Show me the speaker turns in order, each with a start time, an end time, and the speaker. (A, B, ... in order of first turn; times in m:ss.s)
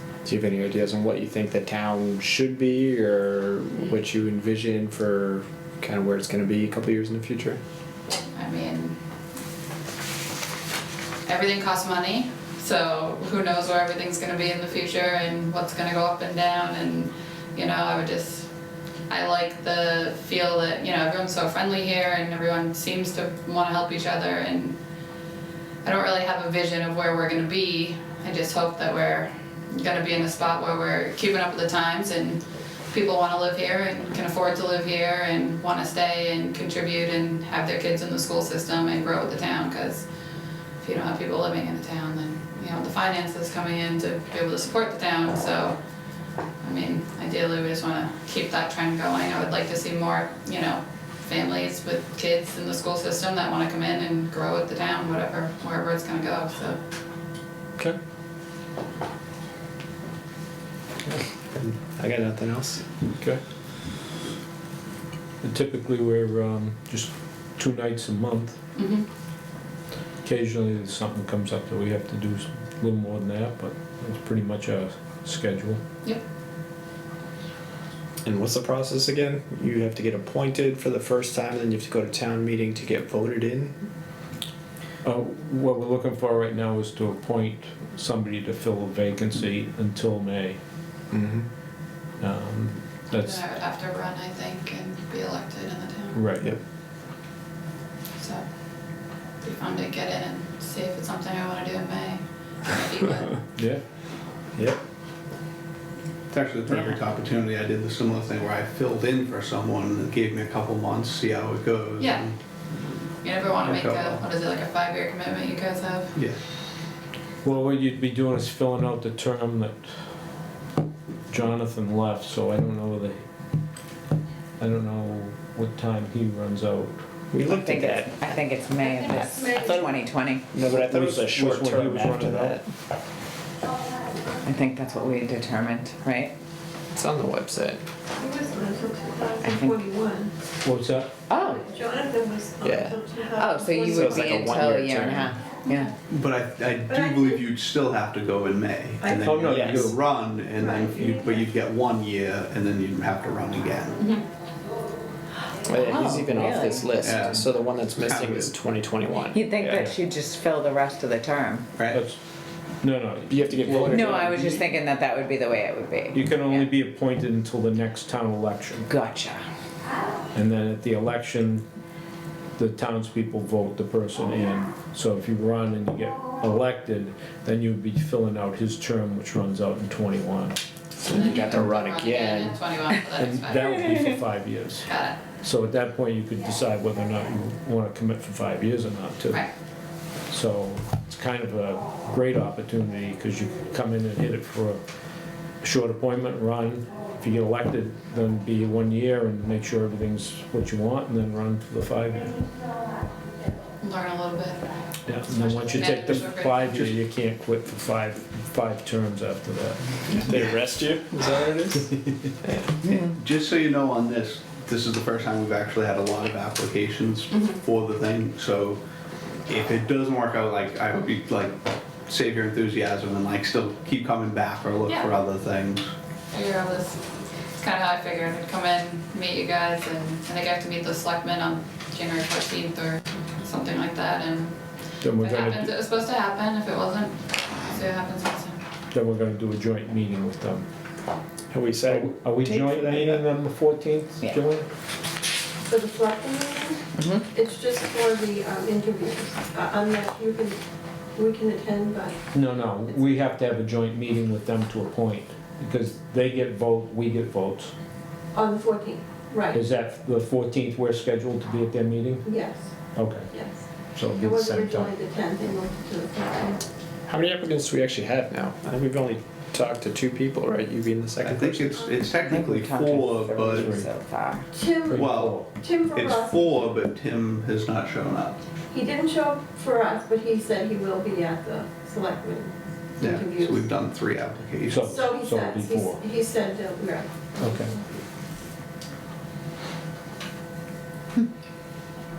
0:00.2-0:07.6 A
0:08.3-0:09.0 B
0:11.3-0:18.5 B
0:19.1-0:24.8 B
0:25.8-0:40.1 B
0:40.8-0:45.8 B
0:46.6-0:56.8 B
1:01.1-1:02.8 A
1:05.4-1:08.6 C
1:08.8-1:09.1 B
1:10.2-1:15.8 C
1:18.2-1:23.8 A
1:25.0-1:30.6 C
1:31.1-1:31.5 A
1:32.2-1:33.4 C
1:33.1-1:36.2 B
1:36.2-1:36.5 C
1:38.2-1:38.6 B
1:39.4-1:43.3 B
1:46.3-1:52.3 D
1:52.0-1:52.3 B
1:53.2-1:56.2 B
1:53.6-1:54.2 D
1:57.4-1:59.9 C
2:01.3-2:03.2 C
2:04.6-2:07.0 C
2:07.3-2:08.2 A
2:07.4-2:10.4 E
2:08.8-2:10.0 F
2:10.5-2:12.6 A
2:10.9-2:12.6 C
2:14.4-2:16.3 E
2:17.0-2:17.8 A
2:18.2-2:20.3 F
2:19.4-2:19.8 E
2:20.6-2:21.2 C
2:21.3-2:21.6 E
2:21.3-2:24.9 F
2:22.6-2:23.0 A
2:23.4-2:25.9 E
2:23.9-2:25.3 A
2:26.1-2:34.1 D
2:26.9-2:27.4 F
2:29.0-2:29.3 F
2:29.2-2:30.0 C
2:29.5-2:30.0 A
2:30.5-2:31.4 F
2:35.6-2:39.9 A
2:35.7-2:36.9 E
2:37.0-2:38.6 D
2:39.3-2:41.7 E
2:41.8-2:42.0 D
2:41.9-2:42.2 C
2:42.8-2:44.0 C
2:43.3-2:44.6 A
2:43.9-2:46.7 E
2:46.1-2:48.9 C
2:48.9-2:49.4 E
2:50.3-2:51.6 C
2:52.6-3:00.6 C
3:01.0-3:02.6 A
3:01.1-3:03.7 B
3:03.2-3:09.4 C
3:04.8-3:05.2 B
3:10.3-3:14.8 C
3:15.6-3:22.4 C
3:23.8-3:24.7 B
3:25.1-3:30.2 C
3:25.2-3:26.9 B
3:30.2-3:31.9 A
3:32.4-3:32.7 A
3:32.9-3:38.8 D
3:37.3-3:37.6 B
3:39.5-3:45.9 D
3:44.9-3:45.1 B
3:46.3-3:47.0 B
3:47.6-3:58.6 B
3:55.0-3:55.7 C
3:58.9-4:00.7 C
4:01.5-4:03.2 A
4:01.9-4:04.7 C
4:05.7-4:10.6 F
4:07.0-4:07.2 E
4:11.2-4:12.2 F
4:12.3-4:17.7 C
4:18.3-4:19.6 F
4:19.5-4:22.3 C
4:22.2-4:22.7 F
4:23.0-4:23.3 C
4:23.3-4:26.6 F
4:23.9-4:24.9 C
4:27.1-4:31.7 A
4:31.2-4:33.8 D
4:32.2-4:34.4 E
4:33.6-4:33.9 C
4:34.5-4:36.8 F
4:34.9-4:35.5 C
4:34.9-4:38.4 D
4:38.7-4:43.7 F
4:43.0-4:44.9 D
4:44.7-4:46.0 C
4:44.8-4:47.8 F
4:47.4-4:47.8 C